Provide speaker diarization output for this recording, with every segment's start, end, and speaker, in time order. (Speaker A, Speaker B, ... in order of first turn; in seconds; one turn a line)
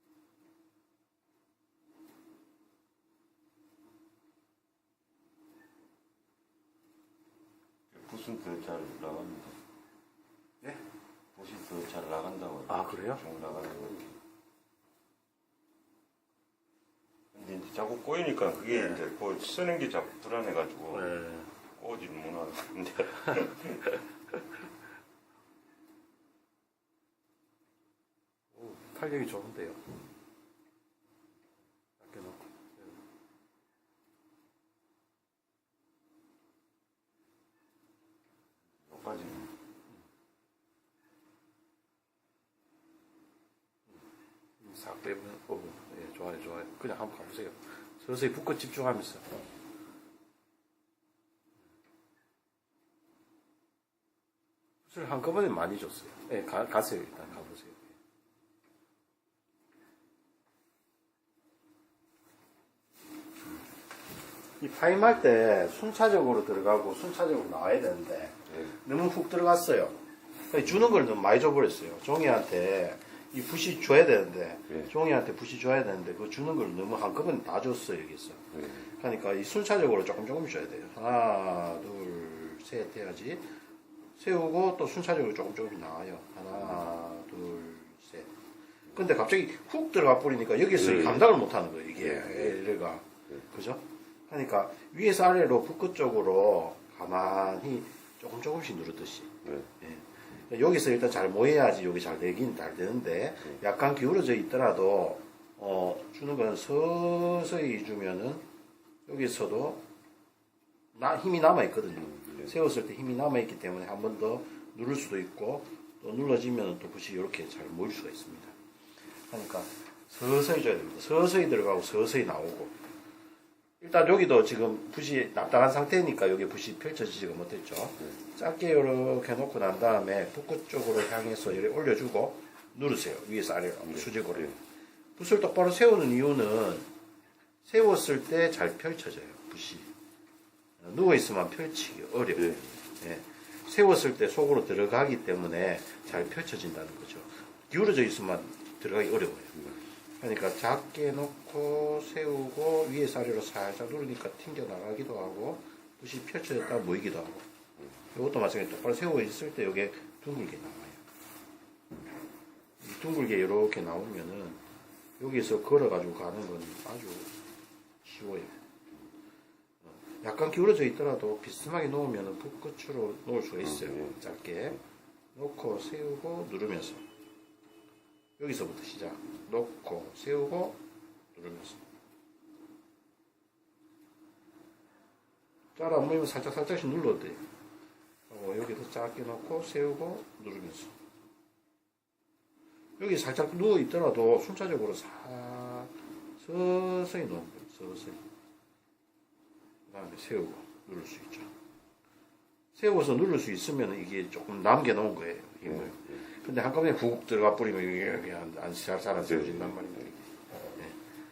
Speaker A: 7.9-9.6
Speaker A: 11.3-14.1
Speaker B: 12.7-13.2
Speaker A: 17.3-21.2
Speaker B: 20.9-21.5
Speaker A: 21.8-23.9
Speaker B: 28.5-29.9
Speaker B: 32.0-32.8
Speaker A: 38.8-39.5
Speaker B: 44.6-49.4
Speaker B: 54.9-57.9
Speaker B: 64.6-70.0
Speaker B: 70.5-83.4
Speaker A: 78.5-78.8
Speaker B: 84.2-88.3
Speaker B: 88.9-108.4
Speaker A: 90.8-91.2
Speaker A: 92.2-92.5
Speaker B: 109.1-109.8
Speaker B: 110.9-118.5
Speaker B: 119.3-122.7
Speaker B: 123.8-134.6
Speaker B: 135.2-136.8
Speaker B: 137.6-139.9
Speaker B: 140.8-157.4
Speaker B: 158.1-161.0
Speaker B: 162.8-164.6
Speaker B: 165.2-167.3
Speaker B: 168.0-168.5
Speaker B: 169.8-174.8
Speaker B: 175.3-177.0
Speaker B: 178.4-180.8
Speaker B: 181.3-181.8
Speaker B: 185.8-187.4
Speaker B: 188.3-190.9
Speaker B: 193.0-198.2
Speaker B: 199.9-201.5
Speaker B: 202.7-211.0